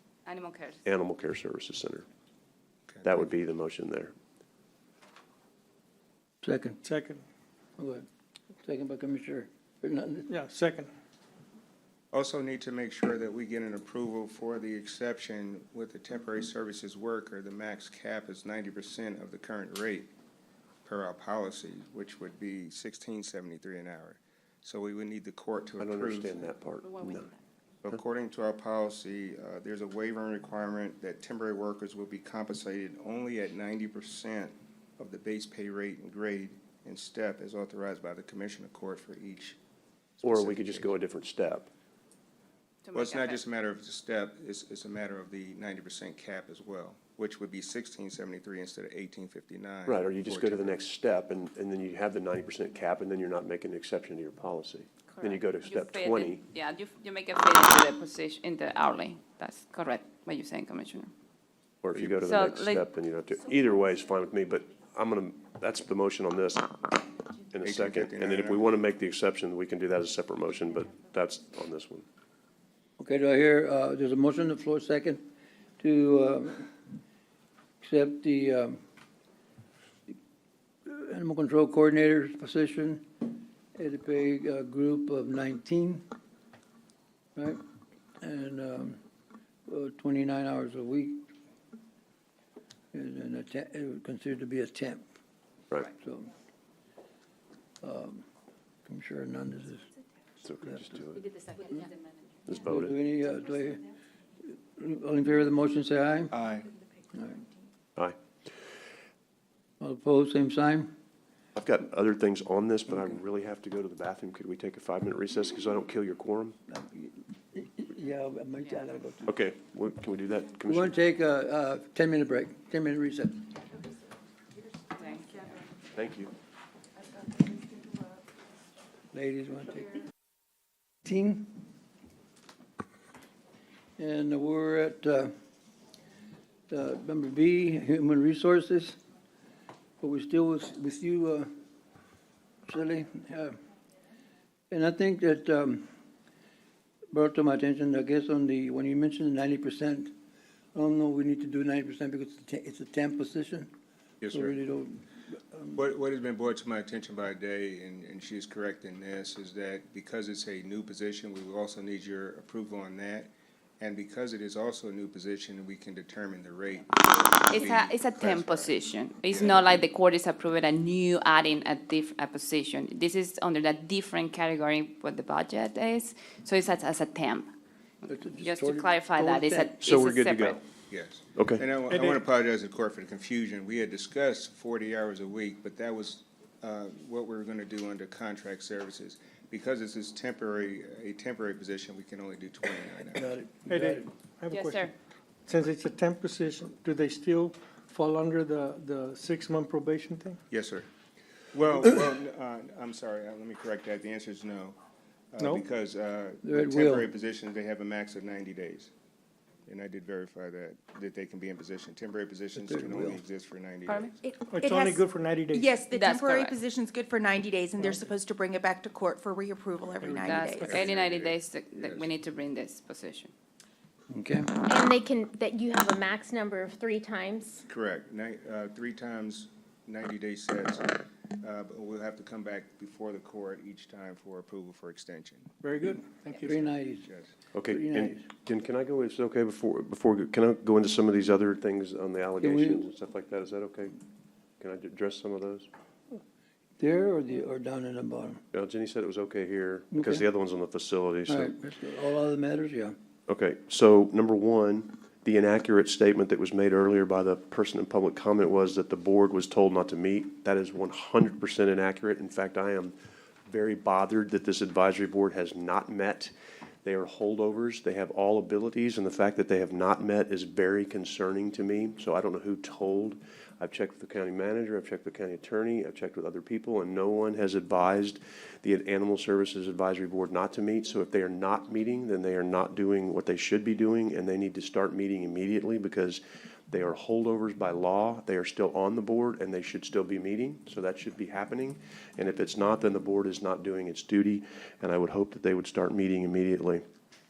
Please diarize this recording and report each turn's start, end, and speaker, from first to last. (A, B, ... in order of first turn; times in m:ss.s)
0:00.3-0:00.8 A
0:00.8-0:02.0 B
0:03.0-0:04.1 B
0:06.4-0:06.8 C
0:06.8-0:07.2 D
0:07.8-0:08.1 C
0:08.6-0:10.3 C
0:10.3-0:10.9 D
0:12.1-0:20.1 E
0:20.8-0:26.5 E
0:25.8-0:27.3 B
0:26.8-0:27.3 A
0:27.8-0:39.6 E
0:40.2-0:40.9 E
0:40.2-0:41.7 B
0:42.8-0:43.4 A
0:42.9-0:50.8 E
0:49.9-0:56.4 B
0:55.2-1:01.1 A
1:01.8-1:06.7 B
1:02.2-1:02.8 A
1:07.5-1:12.0 B
1:07.6-1:08.7 E
1:13.0-1:16.7 C
1:17.8-1:18.8 C
1:20.9-1:26.0 C
1:28.2-1:29.0 C
1:29.7-1:31.2 C
1:32.9-1:35.0 C
1:35.9-1:36.3 C
1:37.8-1:38.2 C
1:38.9-1:39.9 C
1:40.4-1:41.3 B
1:42.5-1:43.0 B
1:42.6-1:43.8 C
1:44.4-1:46.3 C
1:46.3-1:46.7 E
1:47.1-1:47.4 C
1:49.8-1:50.9 C
1:51.6-1:56.6 B
1:56.7-1:59.3 C
1:58.7-1:58.9 A
1:59.3-2:01.0 B
2:00.7-2:03.5 C
2:05.0-2:05.5 A
2:05.9-2:06.3 B
2:09.1-2:10.0 C
2:11.0-2:11.6 C
2:14.0-2:15.3 C
2:16.7-2:19.0 C
2:20.0-2:21.5 C
2:22.7-2:23.6 C
2:24.7-2:25.9 C
2:27.1-2:30.1 C
2:30.7-2:33.7 C
2:34.2-2:34.6 E
2:34.3-2:35.8 C
2:35.8-2:49.8 E
2:47.5-2:57.5 A
2:58.1-2:59.7 C
2:58.4-3:00.6 A
2:59.8-3:00.6 B
3:00.9-3:13.3 E
3:01.4-3:01.6 B
3:01.9-3:02.2 D
3:13.2-3:14.9 D
3:14.5-3:14.9 A
3:15.5-3:20.4 D
3:20.5-3:20.9 E
3:21.5-3:24.8 E
3:25.3-3:28.9 E
3:25.4-3:25.7 D
3:26.4-3:27.1 C
3:29.7-3:34.2 E
3:32.6-3:33.2 C
3:34.3-3:35.0 F
3:34.5-3:35.7 D
3:35.6-3:40.7 F
3:35.9-3:36.6 A
3:40.1-3:43.3 A
3:40.4-3:42.1 E
3:44.1-3:44.5 C
3:44.7-3:47.4 G
3:47.7-3:55.5 E
3:55.6-3:56.7 D
3:56.4-3:57.1 C
3:57.0-3:57.3 E
3:57.5-4:03.9 B
3:57.7-3:58.3 C
4:02.4-4:02.9 C
4:04.6-4:05.7 B
4:06.8-4:08.4 C
4:08.5-4:11.5 B
4:09.9-4:10.3 C
4:11.3-4:13.0 C
4:13.3-4:22.9 B
4:23.5-4:26.3 B
4:26.8-4:56.8 B